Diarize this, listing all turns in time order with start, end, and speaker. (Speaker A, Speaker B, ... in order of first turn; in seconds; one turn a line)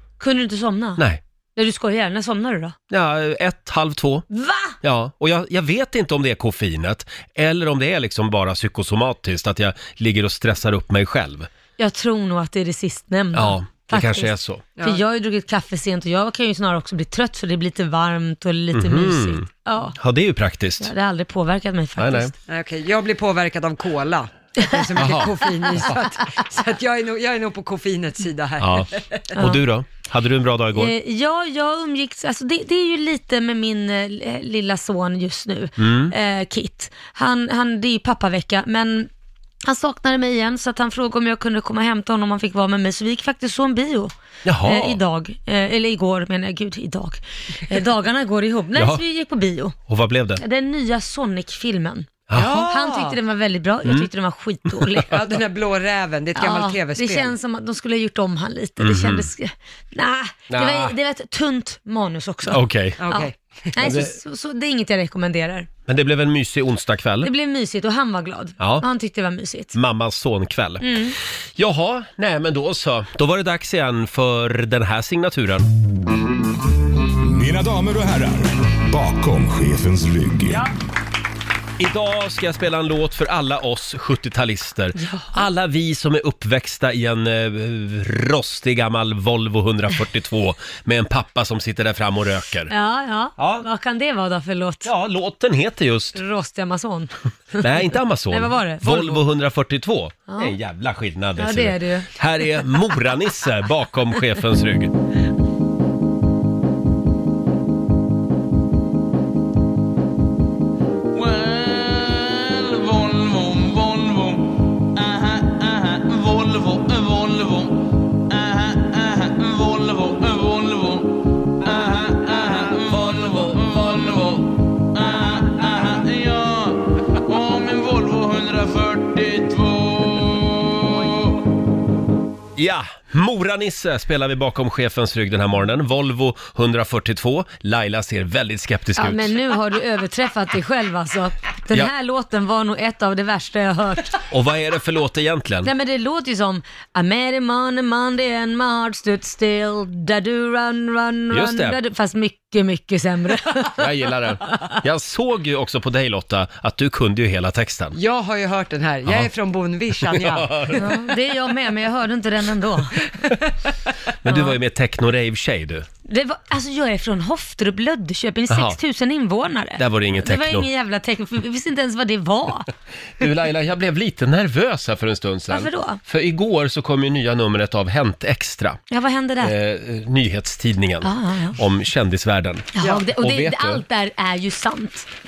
Speaker A: 0.2-1.0
Speaker A: 1.6-2.8
Speaker B: 2.9-4.3
Speaker A: 4.3-4.8
Speaker B: 4.8-11.5
Speaker A: 11.8-20.0
Speaker B: 13.3-14.6
Speaker C: 14.8-15.0
Speaker B: 18.7-19.5
Speaker B: 20.0-20.9
Speaker A: 20.8-22.3
Speaker B: 22.0-22.3
Speaker C: 22.5-29.4
Speaker B: 25.0-25.4
Speaker B: 28.6-30.9
Speaker A: 29.4-29.6
Speaker A: 30.7-39.1
Speaker B: 35.8-36.1
Speaker A: 39.6-49.8
Speaker B: 44.5-45.0
Speaker B: 49.9-50.4
Speaker A: 50.4-55.2
Speaker B: 52.3-52.7
Speaker C: 52.4-53.2
Speaker B: 54.7-55.0
Speaker C: 55.1-57.4
Speaker A: 56.4-65.7
Speaker B: 58.8-59.3
Speaker B: 60.5-61.0
Speaker B: 62.5-63.0
Speaker C: 63.0-64.0
Speaker B: 63.8-64.1
Speaker B: 65.9-67.3
Speaker A: 67.2-69.8
Speaker B: 68.6-68.8
Speaker B: 69.7-70.9
Speaker A: 70.8-71.2
Speaker B: 71.6-75.7
Speaker D: 77.2-80.7
Speaker B: 81.8-92.7
Speaker A: 85.0-85.4
Speaker A: 92.7-94.9
Speaker B: 93.4-93.7
Speaker B: 94.8-96.2
Speaker A: 96.2-99.2
Speaker B: 97.6-104.9
Speaker A: 100.3-100.5
Speaker A: 101.4-102.2
Speaker E: 111.1-131.4
Speaker B: 132.6-139.3
Speaker A: 139.0-144.2
Speaker B: 144.3-145.7
Speaker A: 145.6-153.8
Speaker B: 151.3-151.8
Speaker B: 153.8-158.0
Speaker C: 157.9-160.5
Speaker B: 160.0-160.9
Speaker A: 160.8-163.0
Speaker B: 164.2-165.9
Speaker A: 164.3-164.6
Speaker A: 166.1-172.7
Speaker B: 168.5-168.8
Speaker B: 169.8-170.7
Speaker B: 173.2-178.8
Speaker A: 175.5-176.0
Speaker A: 178.9-179.6
Speaker B: 179.4-183.8
Speaker A: 181.0-181.6
Speaker A: 182.8-185.1